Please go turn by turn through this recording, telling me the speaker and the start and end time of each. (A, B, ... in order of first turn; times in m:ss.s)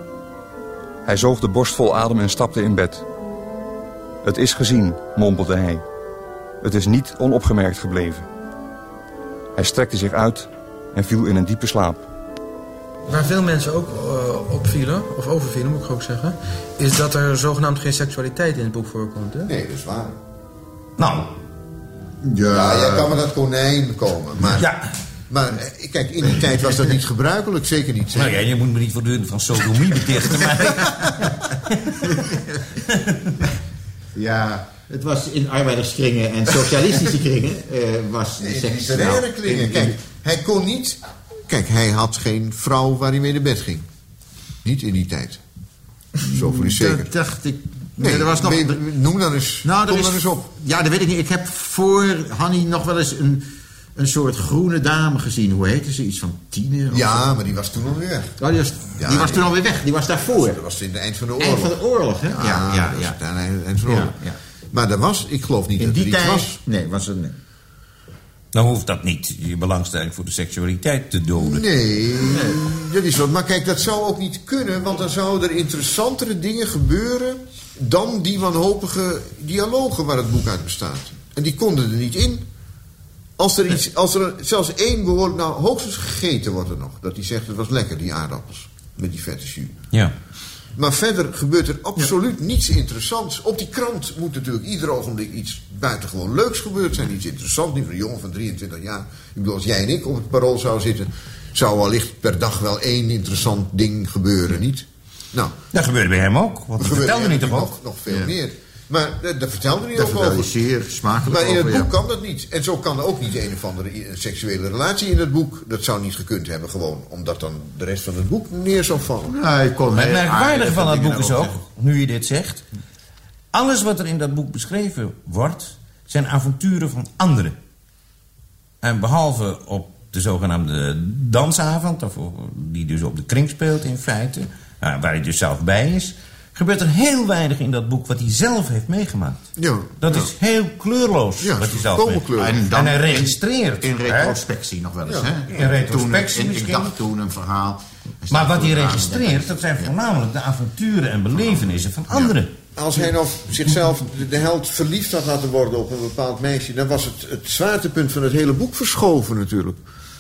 0:01.0-0:03.1 A
0:04.2-0:05.8 A
0:06.6-0:08.3 A
0:09.6-0:12.0 A
0:13.1-0:19.5 B
0:19.4-0:20.2 C
0:21.0-0:21.3 D
0:22.2-0:23.2 E
0:22.5-0:24.7 C
0:24.5-0:24.8 D
0:25.3-0:28.4 C
0:28.1-0:31.3 D
0:34.2-0:40.0 E
0:38.4-0:43.9 C
0:44.6-0:45.4 C
0:46.2-0:48.8 E
0:46.3-0:47.1 C
0:48.0-0:50.5 C
0:49.6-0:57.4 E
0:56.9-0:58.4 C
0:58.4-1:00.6 E
0:58.9-0:59.5 C
1:00.4-1:04.2 C
1:01.4-1:03.2 E
1:03.8-1:04.4 E
1:04.7-1:06.6 C
1:05.8-1:07.4 E
1:08.5-1:11.7 D
1:11.4-1:22.4 C
1:12.2-1:12.6 E
1:23.4-1:29.8 C
1:30.8-1:45.5 C
1:45.7-1:47.7 D
1:46.8-1:50.5 C
1:48.1-1:48.4 E
1:49.9-1:52.0 E
1:51.3-1:59.4 C
1:59.2-2:01.6 E
1:59.9-2:02.6 D
2:03.5-2:07.6 D
2:08.8-2:19.4 D
2:19.6-2:20.3 C
2:20.0-2:24.4 D
2:21.4-2:22.6 C
2:22.3-2:29.9 E
2:25.1-2:25.7 C
2:25.5-2:27.0 D
2:28.3-2:32.5 D
2:32.8-2:39.8 C